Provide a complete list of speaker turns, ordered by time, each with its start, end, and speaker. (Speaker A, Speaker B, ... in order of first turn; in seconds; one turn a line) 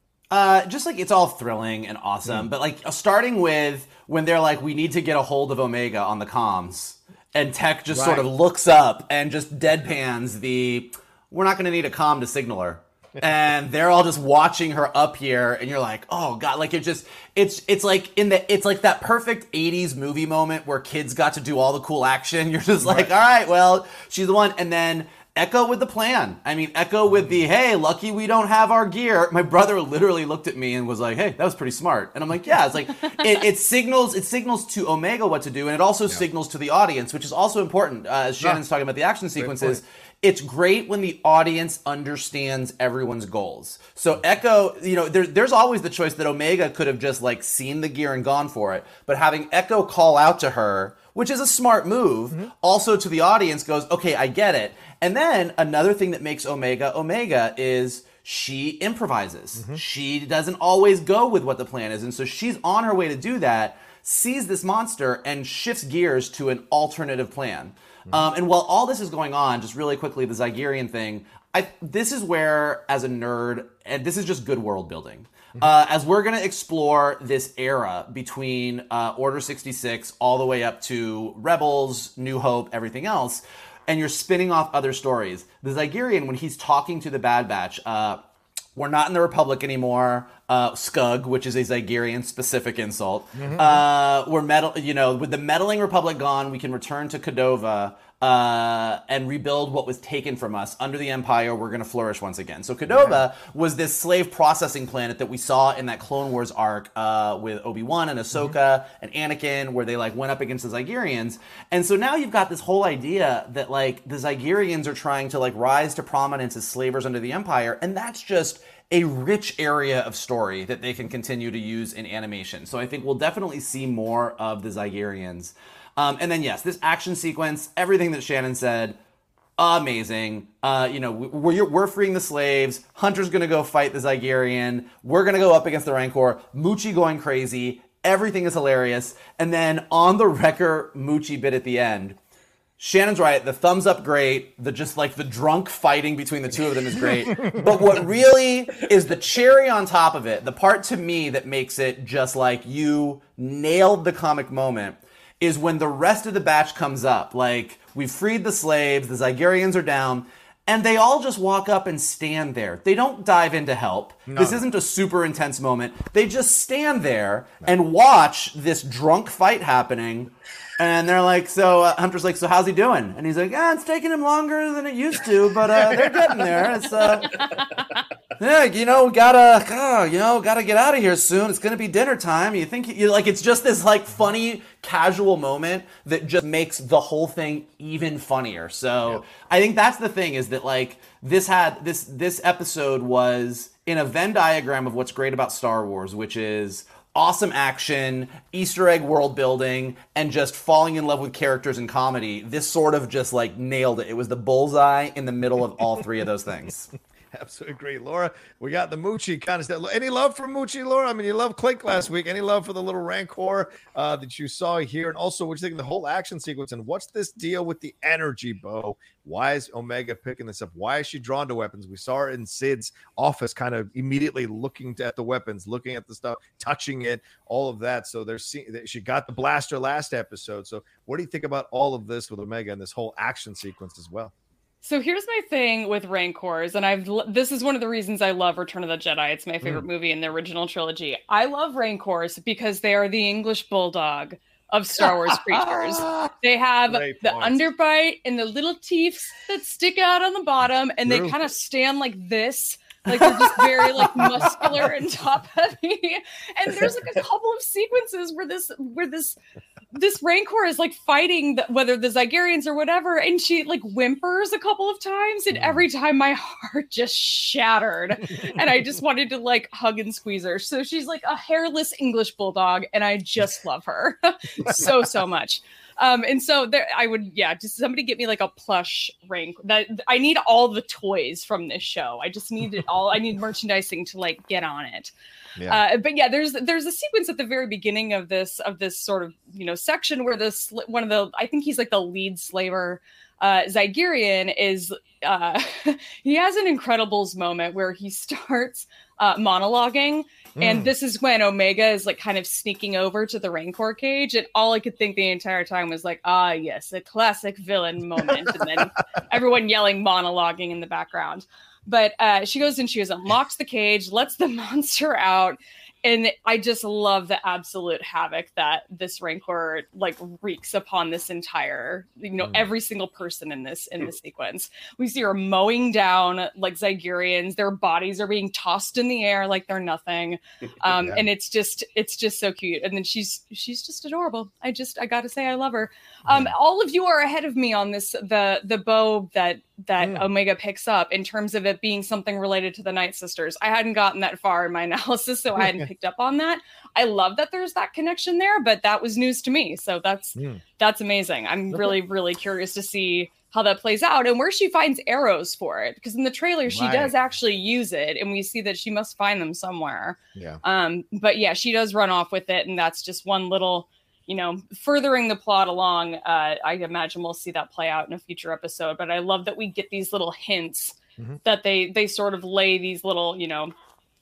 Speaker A: 0.3-88.2
Speaker B: 7.9-8.3
Speaker B: 22.8-23.1
Speaker B: 27.1-27.4
Speaker B: 39.4-39.8
Speaker B: 59.6-59.8
Speaker A: 88.8-129.0
Speaker B: 93.3-93.8
Speaker B: 102.9-103.2
Speaker A: 129.6-142.2
Speaker A: 142.8-177.4
Speaker B: 164.3-164.6
Speaker B: 175.7-176.7
Speaker C: 177.2-177.9
Speaker A: 178.4-206.9
Speaker B: 207.3-234.3
Speaker C: 234.8-259.4
Speaker B: 245.0-246.3
Speaker B: 246.9-247.7
Speaker B: 251.1-251.4
Speaker B: 254.0-254.9
Speaker C: 259.9-285.1
Speaker B: 265.5-265.8
Speaker C: 285.7-373.7
Speaker B: 300.6-300.9
Speaker B: 330.9-331.3
Speaker B: 336.3-336.5
Speaker B: 340.0-340.3
Speaker B: 345.6-345.9
Speaker B: 350.4-350.6
Speaker B: 351.7-352.0
Speaker B: 356.7-357.1
Speaker B: 360.4-360.6